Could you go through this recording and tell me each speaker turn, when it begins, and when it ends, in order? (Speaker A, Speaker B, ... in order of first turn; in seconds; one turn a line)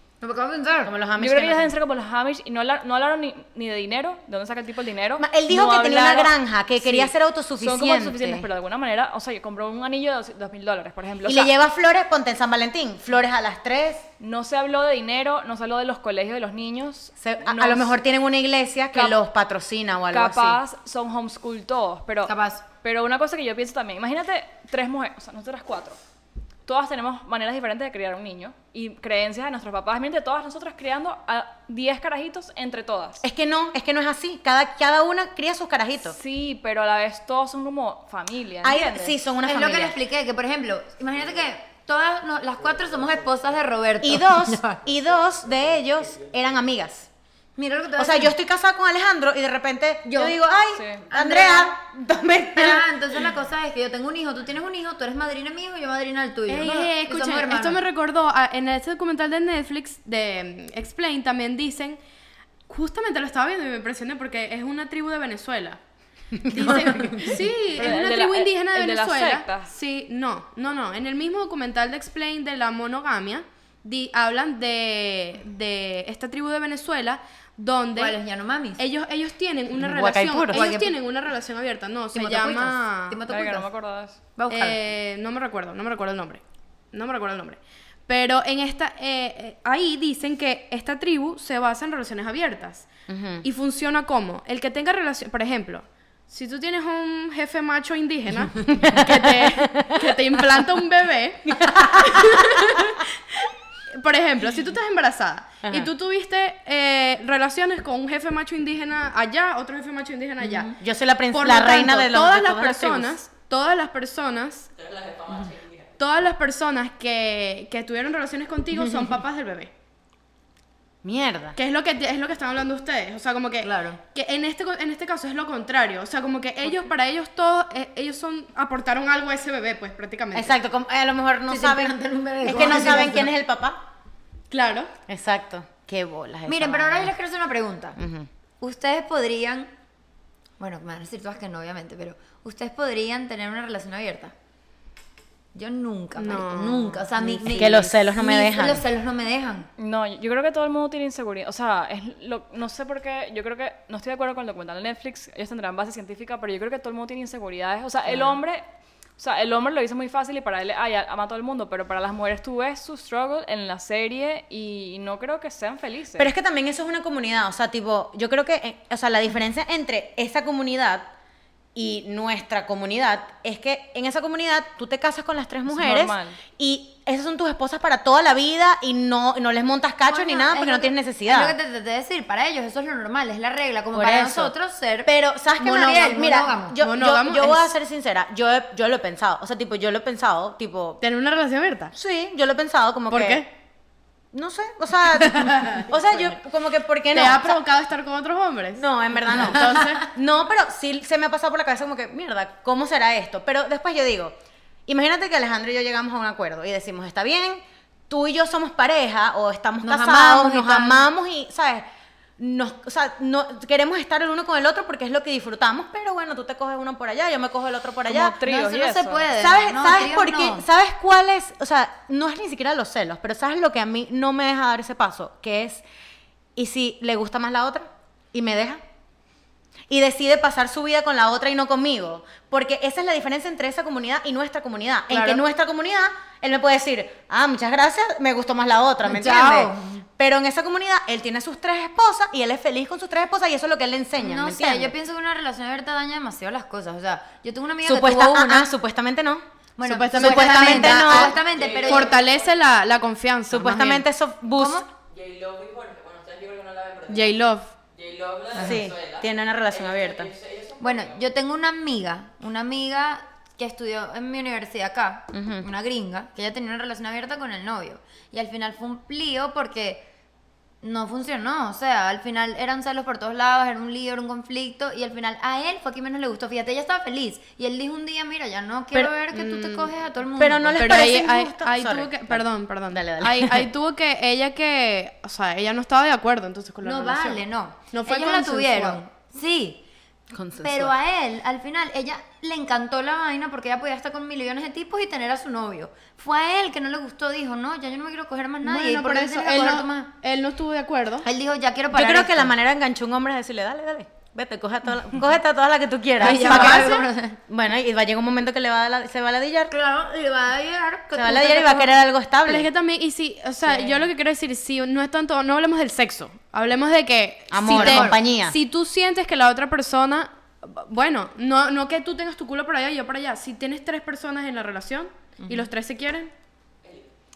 Speaker A: 0.2-0.9
Speaker B: 0.8-1.7
Speaker C: 1.2-11.5
Speaker B: 5.2-8.4
Speaker B: 11.2-14.1
Speaker C: 14.2-18.0
Speaker B: 17.2-20.6
Speaker C: 20.1-26.0
Speaker A: 22.2-22.6
Speaker C: 26.6-33.2
Speaker B: 33.2-36.2
Speaker C: 36.0-39.2
Speaker B: 38.6-40.0
Speaker A: 39.4-44.8
Speaker D: 42.6-43.4
Speaker B: 44.0-47.1
Speaker D: 45.0-46.3
Speaker A: 47.5-48.3
Speaker B: 48.0-52.9
Speaker A: 50.0-50.4
Speaker C: 50.7-51.0
Speaker A: 51.1-51.7
Speaker A: 52.5-57.8
Speaker E: 56.5-62.0
Speaker E: 62.7-65.8
Speaker B: 66.4-67.4
Speaker E: 66.5-78.2
Speaker C: 67.7-69.7
Speaker A: 77.9-78.8
Speaker E: 78.8-83.2
Speaker B: 79.8-80.7
Speaker A: 80.5-80.9
Speaker A: 82.1-83.7
Speaker C: 83.3-84.2
Speaker A: 84.3-84.8
Speaker E: 84.5-92.9
Speaker B: 93.1-93.5
Speaker E: 93.4-110.7
Speaker B: 98.6-100.2
Speaker B: 101.5-102.8
Speaker B: 105.6-105.9
Speaker A: 110.4-110.7
Speaker B: 110.7-113.2
Speaker E: 111.3-114.7
Speaker D: 114.7-116.0
Speaker E: 116.0-119.7
Speaker A: 118.8-119.1
Speaker B: 121.0-121.6
Speaker E: 121.5-130.5
Speaker A: 123.6-124.0
Speaker B: 130.3-133.8
Speaker A: 131.5-133.3
Speaker E: 132.6-133.0
Speaker E: 134.5-134.9
Speaker B: 135.1-137.1
Speaker A: 136.5-138.0
Speaker B: 138.0-138.3
Speaker A: 138.6-139.7
Speaker A: 140.6-144.3
Speaker A: 145.5-149.7
Speaker E: 146.2-147.1
Speaker B: 147.2-148.8
Speaker C: 149.8-158.6
Speaker C: 159.2-166.3
Speaker B: 166.2-171.1
Speaker B: 171.7-181.5
Speaker C: 175.7-176.4
Speaker A: 180.0-186.8
Speaker B: 183.9-184.5
Speaker B: 185.0-191.0
Speaker E: 186.8-187.7
Speaker E: 191.0-191.9
Speaker B: 191.9-193.4
Speaker E: 193.1-193.5
Speaker B: 194.3-197.6
Speaker E: 195.3-195.9
Speaker E: 197.1-200.1
Speaker B: 198.8-204.3
Speaker B: 204.9-211.8
Speaker A: 209.8-211.1
Speaker B: 212.4-218.4
Speaker C: 218.1-219.2
Speaker A: 218.4-220.7
Speaker B: 219.3-225.8
Speaker B: 226.6-228.8
Speaker B: 229.9-244.9
Speaker A: 235.1-235.4
Speaker A: 239.0-240.0
Speaker A: 244.2-248.7
Speaker B: 247.8-249.4
Speaker A: 249.8-252.2
Speaker E: 249.8-254.0
Speaker B: 250.1-251.4
Speaker D: 251.4-252.6
Speaker B: 253.5-254.8
Speaker A: 254.5-254.9
Speaker D: 255.0-257.4
Speaker E: 257.1-257.7
Speaker D: 257.9-261.2
Speaker B: 258.6-260.3
Speaker A: 260.8-270.1
Speaker B: 265.3-265.7
Speaker A: 270.8-281.1
Speaker E: 279.3-279.9
Speaker B: 280.4-283.7
Speaker E: 280.8-287.4
Speaker A: 286.8-289.8
Speaker E: 287.9-289.0
Speaker B: 290.3-290.9
Speaker A: 290.6-300.1
Speaker E: 298.6-301.3
Speaker A: 301.2-302.5
Speaker B: 301.9-309.7
Speaker A: 306.2-307.4
Speaker E: 306.2-307.0
Speaker A: 309.7-311.9
Speaker B: 311.1-312.7
Speaker E: 312.4-326.3
Speaker A: 313.6-314.0
Speaker B: 317.5-318.6
Speaker A: 317.6-318.2
Speaker A: 325.4-325.7
Speaker D: 326.8-327.1